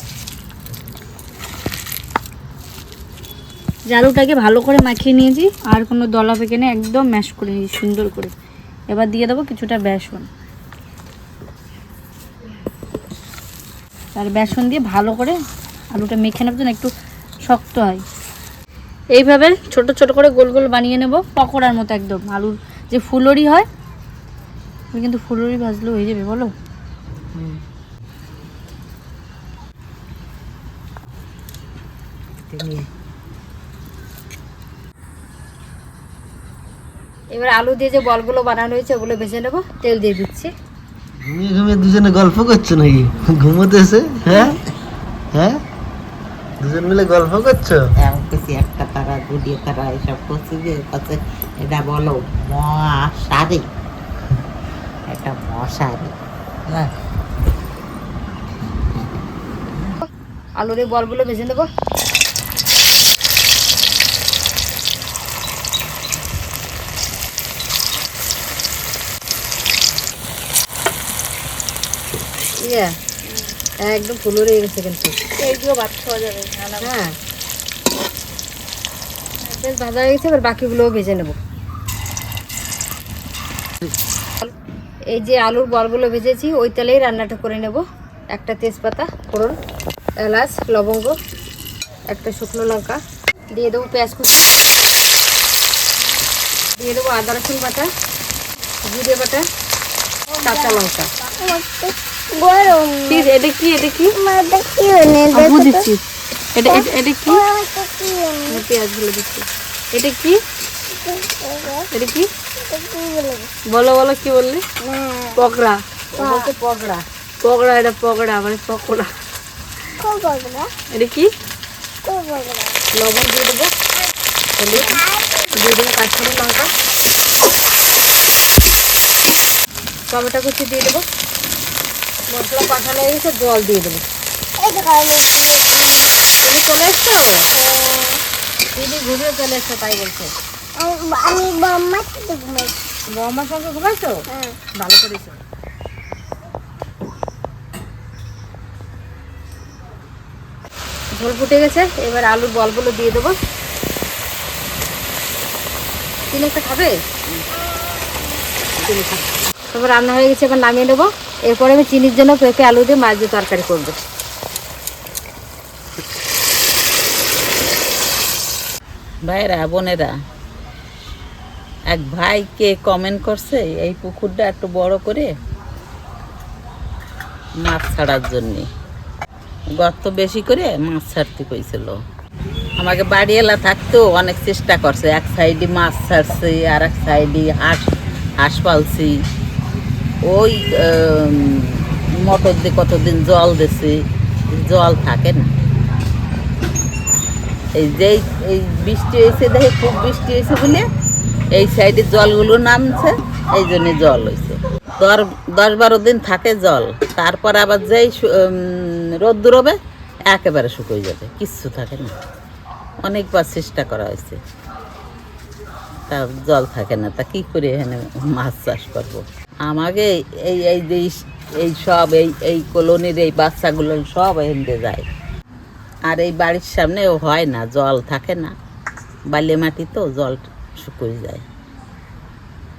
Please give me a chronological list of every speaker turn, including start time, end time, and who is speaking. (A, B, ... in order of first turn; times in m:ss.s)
0:03.9-0:08.3 A
0:08.9-0:10.2 A
0:14.1-0:15.4 A
0:15.9-0:16.9 A
0:17.4-0:18.0 A
0:19.1-0:23.7 A
0:24.9-0:26.5 A
0:32.5-0:32.8 B
0:37.3-0:40.5 C
0:41.2-0:44.6 B
0:45.3-0:45.6 B
0:46.6-0:47.8 B
0:48.0-0:53.7 D
0:55.1-0:56.1 D
1:00.0-1:01.7 C
1:12.6-1:12.9 C
1:13.8-1:15.2 C
1:15.4-1:16.9 A
1:16.8-1:17.1 C
1:19.4-1:21.4 C
1:25.1-1:29.5 C
1:30.2-1:31.1 C
1:32.1-1:33.0 C
1:33.5-1:34.4 C
1:36.8-1:37.9 C
1:38.8-1:39.4 C
1:40.4-1:43.1 E
1:40.4-1:41.1 C
1:43.1-1:44.2 A
1:44.2-1:45.6 E
1:45.3-1:46.0 A
1:46.5-1:47.4 A
1:46.7-1:48.6 E
1:48.5-1:50.4 A
1:51.0-1:51.8 E
1:51.9-1:52.3 A
1:52.7-1:53.5 E
1:53.7-1:54.6 A
1:54.8-1:55.3 E
1:55.4-1:55.8 A
1:56.1-1:57.0 C
1:56.2-1:56.5 E
1:57.4-1:59.1 A
2:00.0-2:00.7 E
2:00.9-2:01.3 A
2:02.0-2:02.7 E
2:02.9-2:03.7 C
2:04.6-2:06.7 C
2:10.1-2:11.0 C
2:12.3-2:14.0 C
2:14.6-2:16.0 E
2:16.4-2:17.5 C
2:17.6-2:18.2 E
2:18.7-2:20.3 C
2:20.8-2:22.7 E
2:23.1-2:24.1 C
2:24.8-2:25.4 C
2:31.1-2:33.3 C
2:36.3-2:36.9 C
2:38.8-2:39.2 C
2:39.7-2:43.9 C
2:49.2-2:50.1 D
2:51.9-2:55.3 D
2:57.6-2:58.7 D
2:59.7-3:02.0 D
3:02.8-3:07.9 D
3:08.4-3:09.1 D
3:10.2-3:14.0 D
3:14.5-3:15.5 D
3:17.7-3:20.8 D
3:21.5-3:29.8 D
3:30.3-3:32.1 D
3:33.0-3:34.4 D
3:36.1-3:45.0 D
3:46.0-3:48.5 D
3:49.3-3:51.4 D